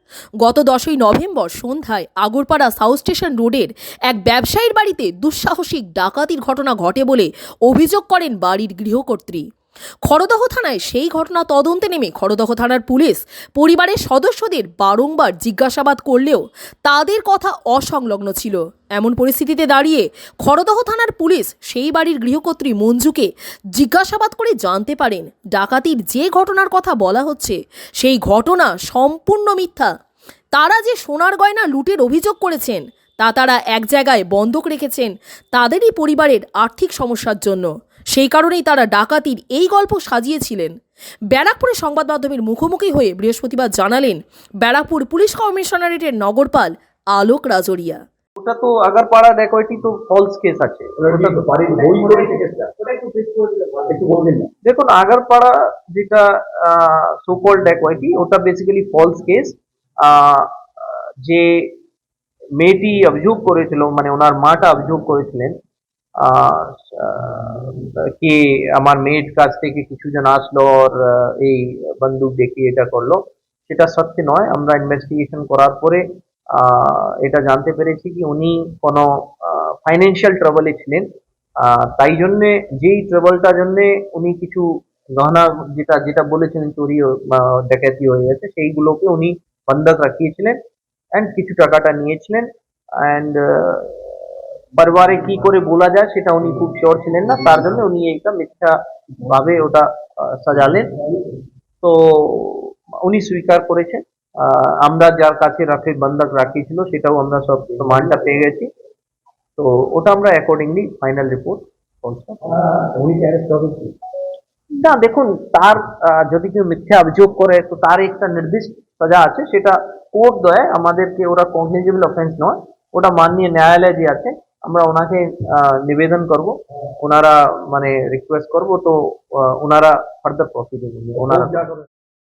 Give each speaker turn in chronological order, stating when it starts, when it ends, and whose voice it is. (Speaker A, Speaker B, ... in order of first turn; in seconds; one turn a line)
Speaker A: 0.4-9.4
Speaker A: 10.0-29.9
Speaker A: 30.5-40.7
Speaker A: 41.3-48.0
Speaker B: 48.4-52.4
Speaker C: 51.0-54.5
Speaker B: 54.6-61.7
Speaker B: 62.6-65.6
Speaker B: 66.2-81.1
Speaker B: 81.6-90.6
Speaker B: 91.1-94.1
Speaker B: 94.7-101.1
Speaker B: 101.8-108.7
Speaker B: 109.6-112.6
Speaker C: 112.5-113.9
Speaker B: 114.8-131.6
Speaker C: 131.4-131.8